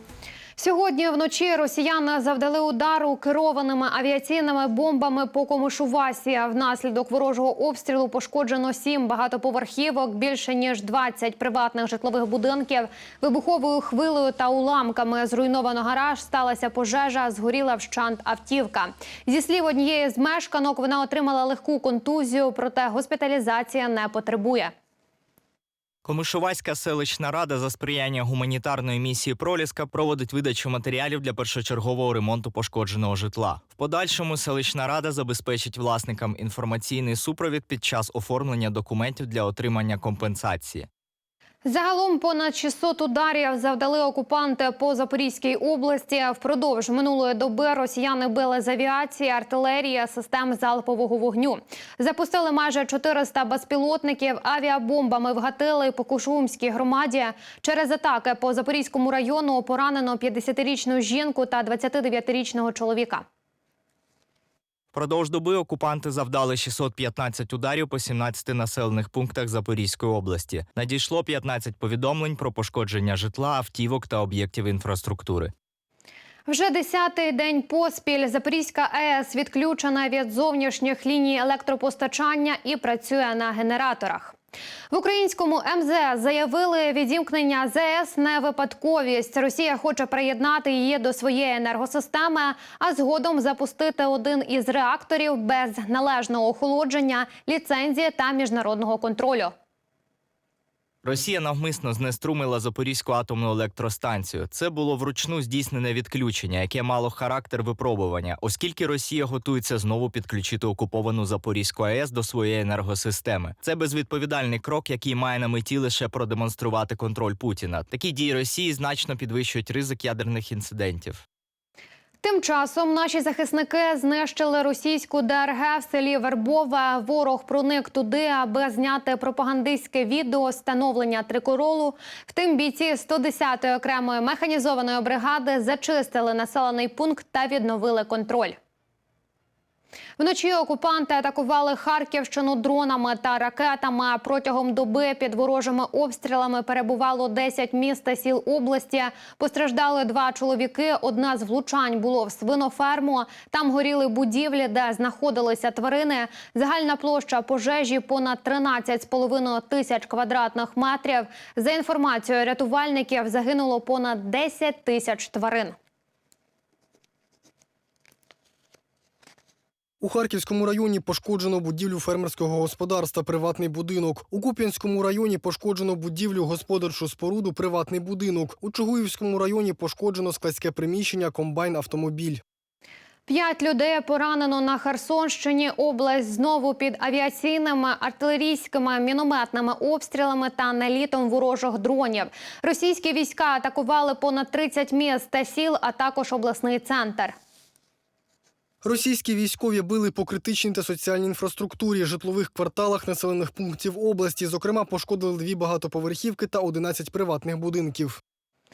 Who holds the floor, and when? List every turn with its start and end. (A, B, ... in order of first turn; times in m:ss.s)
0:00.6-0:24.7 A
0:26.0-0:40.9 B
0:41.6-1:03.2 A
1:04.9-1:15.5 B
1:16.5-1:24.3 A
1:24.9-1:39.5 A
1:41.0-2:01.2 B
2:02.2-2:18.6 A
2:20.2-2:45.8 A
2:50.0-3:02.4 C
3:03.3-3:17.4 A
3:18.8-3:28.2 C